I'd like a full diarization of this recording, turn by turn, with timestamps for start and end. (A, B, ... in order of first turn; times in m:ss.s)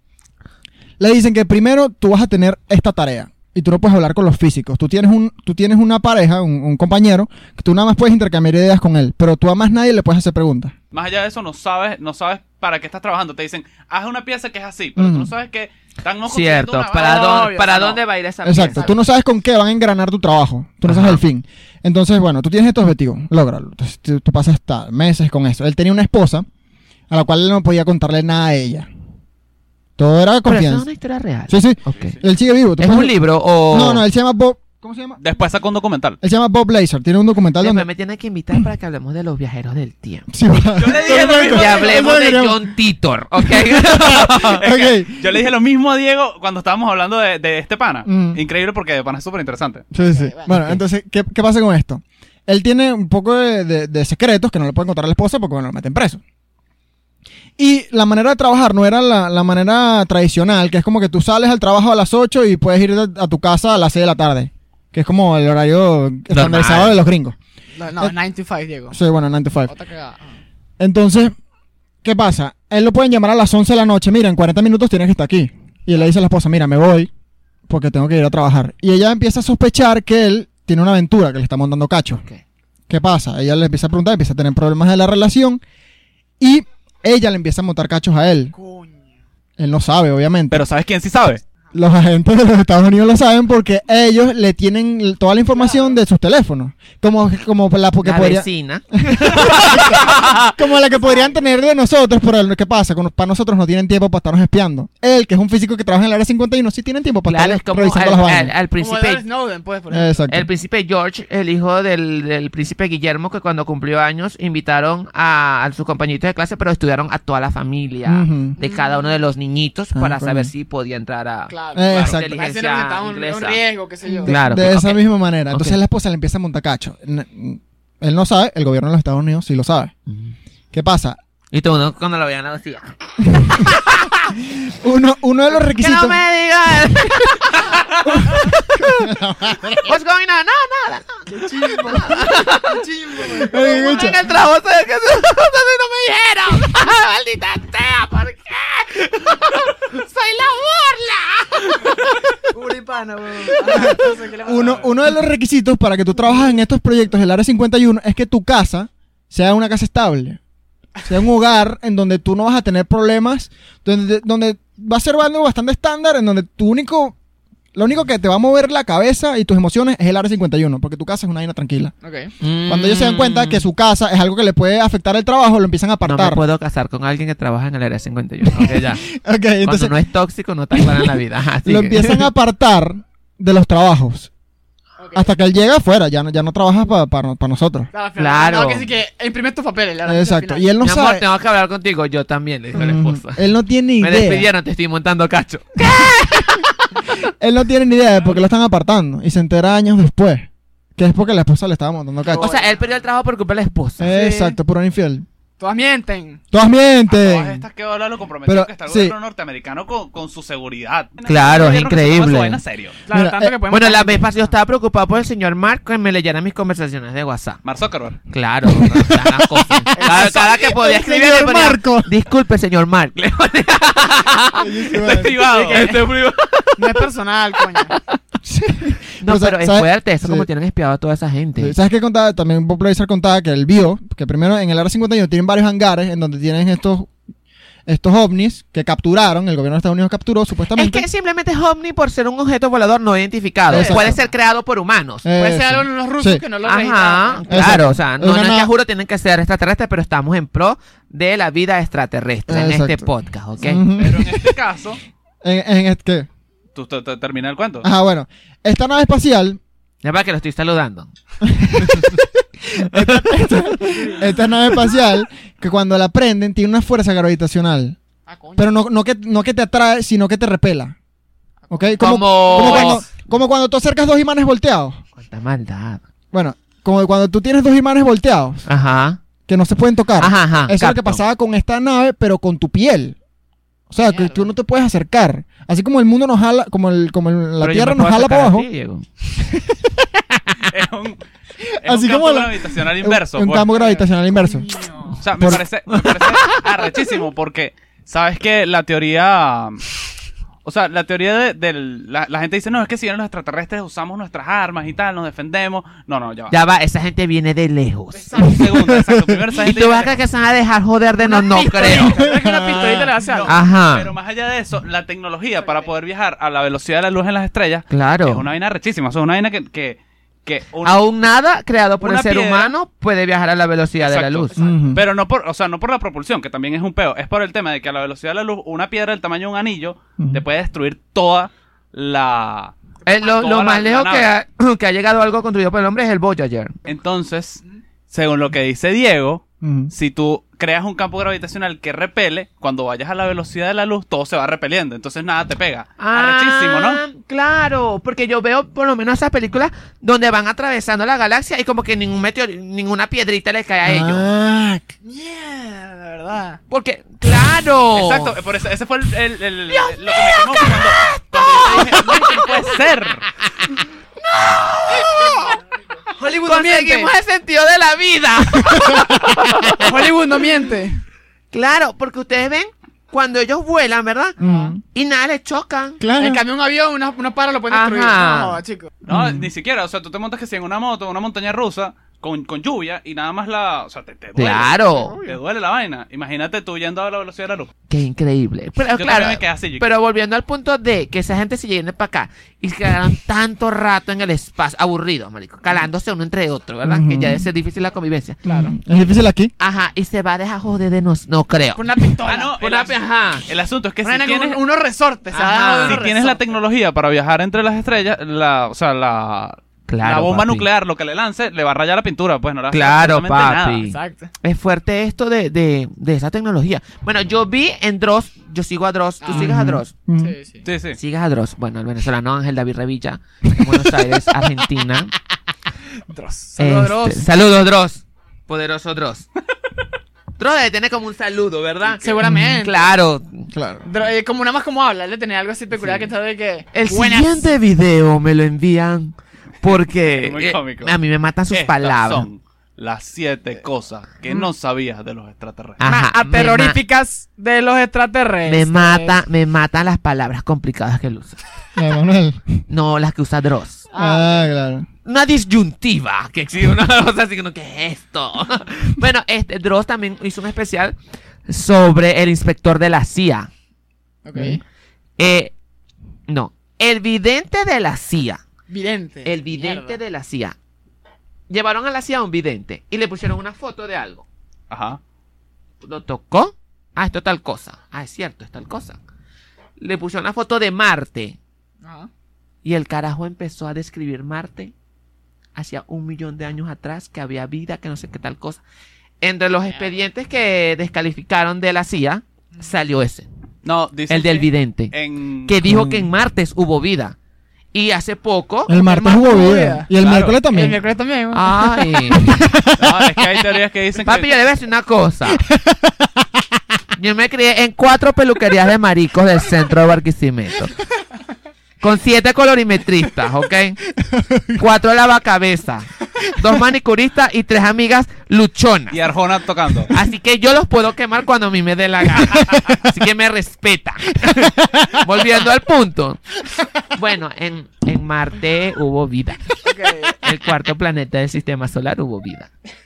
0:01.0-0:10.7 A
0:10.9-0:17.5 B
0:15.0-0:15.3 A
0:16.3-0:19.0 C
0:17.0-0:18.0 D
0:18.4-0:26.4 A
0:18.6-0:19.0 D
0:20.8-0:21.2 C
0:27.1-0:28.9 A
0:30.0-0:30.8 A
0:30.4-0:32.2 C
0:31.5-0:33.1 A
0:32.8-0:34.0 C
0:33.7-0:35.2 A
0:35.2-0:36.2 B
0:36.2-0:37.8 A
0:37.6-0:40.3 C
0:40.3-0:42.7 A
0:40.6-0:42.1 B
0:41.4-0:44.6 C
0:43.4-0:45.4 A
0:44.0-0:49.8 B
0:48.0-0:48.4 A
0:49.9-0:56.2 A
0:50.0-0:50.6 D
0:50.5-0:50.8 C
0:57.6-1:07.4 A
1:06.3-1:07.0 C
1:07.8-1:09.0 D
1:08.9-1:09.7 A
1:09.7-1:10.4 D
1:10.8-1:11.3 A
1:12.0-1:17.1 A
1:17.7-1:22.2 A
1:22.9-1:25.6 A
1:26.4-1:28.5 A
1:28.5-1:29.0 D
1:29.6-1:30.6 A
1:30.5-1:31.4 B
1:31.7-1:48.5 A
1:35.5-1:36.0 D
1:38.0-1:40.6 C
1:40.9-1:41.4 D
1:47.2-1:49.2 C
1:48.8-1:50.3 D
1:49.9-1:50.5 A
1:50.3-2:03.6 C
1:58.1-1:58.6 A
1:58.6-1:59.0 D
1:59.9-2:00.5 A
2:01.5-2:04.4 D
2:01.7-2:02.3 A
2:04.0-2:09.9 A
2:04.2-2:05.8 C
2:10.1-2:10.3 C
2:10.7-2:11.2 A
2:11.5-2:14.3 C
2:13.3-2:13.7 A
2:14.4-2:16.2 A
2:15.5-2:19.1 C
2:18.1-2:20.0 A
2:19.8-2:22.8 C
2:21.3-2:24.2 D
2:21.8-2:22.2 A
2:23.2-2:24.2 A
2:23.4-2:32.2 C
2:32.5-2:35.1 D
2:33.6-2:40.4 A
2:41.0-2:47.2 A
2:47.7-2:51.9 A
2:52.0-2:52.3 D
2:52.4-2:53.6 C
2:52.7-2:56.4 A
2:56.0-2:59.0 C
2:58.4-2:59.9 A
2:59.6-3:02.3 C
3:00.7-3:04.3 A
3:05.0-3:05.3 D
3:05.1-3:07.9 A
3:07.9-3:10.7 D
3:08.2-3:08.9 C
3:10.0-3:11.2 A
3:10.8-3:13.4 C
3:12.7-3:14.5 A
3:14.0-3:17.0 C
3:17.4-3:22.5 A
3:22.3-3:22.9 D
3:22.3-3:24.1 C
3:24.0-3:25.2 A
3:24.1-3:24.6 D
3:25.6-3:26.4 D
3:26.5-3:27.6 A
3:27.1-3:33.0 B
3:28.4-3:29.1 A
3:31.2-3:32.6 C
3:33.0-3:34.5 D
3:33.1-3:33.6 A
3:33.7-3:37.6 C
3:37.6-3:38.2 B
3:38.3-3:47.1 C
3:38.6-3:42.1 A
3:39.9-3:40.6 D
3:44.6-3:45.4 A
3:45.0-3:45.9 B
3:45.6-3:46.1 D
3:46.8-3:48.0 D
3:47.6-3:48.2 C
3:48.4-3:50.5 A
3:49.2-3:51.7 C
3:51.6-3:57.1 A
3:57.8-4:01.0 A
4:00.7-4:05.2 C
4:03.7-4:04.2 A
4:03.7-4:04.3 D
4:05.2-4:06.4 A
4:05.4-4:07.9 D
4:06.6-4:13.9 C
4:07.4-4:08.7 A
4:12.5-4:14.5 A
4:14.0-4:15.0 B
4:15.4-4:16.3 A
4:16.7-4:17.9 B
4:17.8-4:19.6 A
4:20.0-4:21.1 C
4:21.4-4:28.0 A
4:23.0-4:23.2 C
4:28.3-4:28.7 D
4:28.6-4:30.9 A
4:31.7-4:33.1 D
4:31.7-4:35.0 A
4:32.0-4:33.0 C
4:35.2-4:36.0 C
4:36.3-4:38.6 A
4:38.6-4:39.2 C
4:39.5-4:43.2 A
4:40.2-4:41.2 C
4:43.9-4:48.6 A
4:44.0-4:44.5 D
4:47.6-4:49.0 C
4:49.5-4:50.4 A
4:50.7-4:51.2 B
4:51.8-4:54.7 A
4:51.8-4:53.7 B
4:53.7-4:55.1 D
4:55.2-4:59.8 B
4:55.3-4:55.6 A
4:56.0-4:56.6 C
5:00.6-5:06.5 B
5:06.5-5:08.5 C
5:08.1-5:08.6 D
5:08.4-5:10.2 B
5:08.6-5:09.4 A
5:09.6-5:12.2 C
5:11.2-5:13.6 D
5:12.0-5:13.1 A
5:13.2-5:21.0 B
5:13.4-5:14.1 C
5:15.6-5:15.9 D
5:17.9-5:18.4 C
5:20.8-5:24.6 C
5:22.0-5:22.7 B
5:24.0-5:32.7 B
5:24.6-5:25.0 A
5:33.0-5:33.3 D
5:33.0-5:36.8 C
5:33.3-5:34.3 B
5:36.8-5:47.0 B
5:39.6-5:39.9 A
5:46.0-5:54.2 C
5:53.8-5:54.8 A
5:55.0-5:56.6 D
5:56.7-5:58.3 C
5:57.9-6:03.3 B
5:59.7-6:02.7 C
6:04.2-6:05.6 C
6:06.2-6:07.1 D
6:06.2-6:09.9 C
6:08.7-6:09.1 A
6:09.8-6:11.0 D
6:11.5-6:14.4 C
6:14.4-6:14.7 D
6:14.4-6:14.8 A
6:14.9-6:16.0 C
6:16.0-6:16.4 A
6:16.2-6:18.9 D
6:17.7-6:18.6 C
6:19.0-6:27.7 B
6:19.1-6:19.5 A
6:24.3-6:25.2 C
6:24.9-6:25.4 D
6:27.9-6:38.4 C
6:29.0-6:29.9 B
6:36.8-6:37.5 A
6:38.4-6:39.5 A
6:38.5-6:38.7 D
6:39.6-6:41.8 C
6:41.7-6:42.6 D
6:42.2-6:44.6 B
6:42.6-6:43.4 C
6:44.0-6:46.6 D
6:45.3-6:46.0 C
6:45.8-6:53.8 B
6:49.9-6:50.6 C
6:52.7-6:59.9 C
6:53.8-6:54.3 D
6:59.2-6:59.6 D
6:59.3-7:00.3 A
7:00.2-7:00.6 D
7:00.6-7:01.0 B
7:00.9-7:05.1 C
7:03.5-7:03.9 A
7:06.1-7:07.3 D
7:06.6-7:09.3 C
7:10.4-7:13.5 C
7:12.0-7:12.9 D
7:12.2-7:12.6 A
7:13.5-7:13.8 A
7:13.8-7:17.5 D
7:15.7-7:16.1 C
7:16.7-7:22.3 C
7:19.6-7:21.0 B
7:21.5-7:25.8 B
7:25.8-7:26.8 C
7:25.8-7:29.2 D
7:28.4-7:31.4 C
7:31.7-7:32.6 A
7:32.7-7:33.8 C
7:33.9-7:34.5 D
7:33.9-7:34.9 A
7:35.0-7:41.0 C
7:41.5-7:43.5 C
7:44.2-7:44.6 D
7:45.2-7:45.5 C
7:46.3-7:48.4 C
7:48.7-7:50.0 D
7:49.2-7:50.6 C
7:51.5-7:54.2 C
7:54.7-7:55.0 B
7:55.8-7:59.0 C
7:59.8-8:01.4 C
8:01.8-8:02.1 D
8:02.6-8:04.7 C
8:05.6-8:08.6 C
8:09.2-8:13.3 C
8:09.6-8:10.0 D
8:13.6-8:15.6 B
8:14.1-8:14.9 C
8:15.4-8:17.2 C
8:15.6-8:16.1 A
8:17.7-8:18.8 C
8:18.7-8:20.8 A
8:18.7-8:19.9 D
8:20.0-8:20.4 B
8:20.4-8:21.5 D
8:21.3-8:22.5 C
8:21.5-8:23.4 A
8:22.8-8:24.4 B
8:24.0-8:25.4 C
8:25.3-8:26.4 A
8:27.0-8:30.7 C
8:31.8-8:33.8 C
8:34.0-8:34.6 A
8:34.6-8:39.0 C
8:38.9-8:39.9 B
8:39.9-8:46.2 C
8:42.3-8:42.8 A
8:44.2-8:45.0 A
8:46.9-8:49.5 C
8:49.6-8:50.2 D
8:50.2-8:52.5 C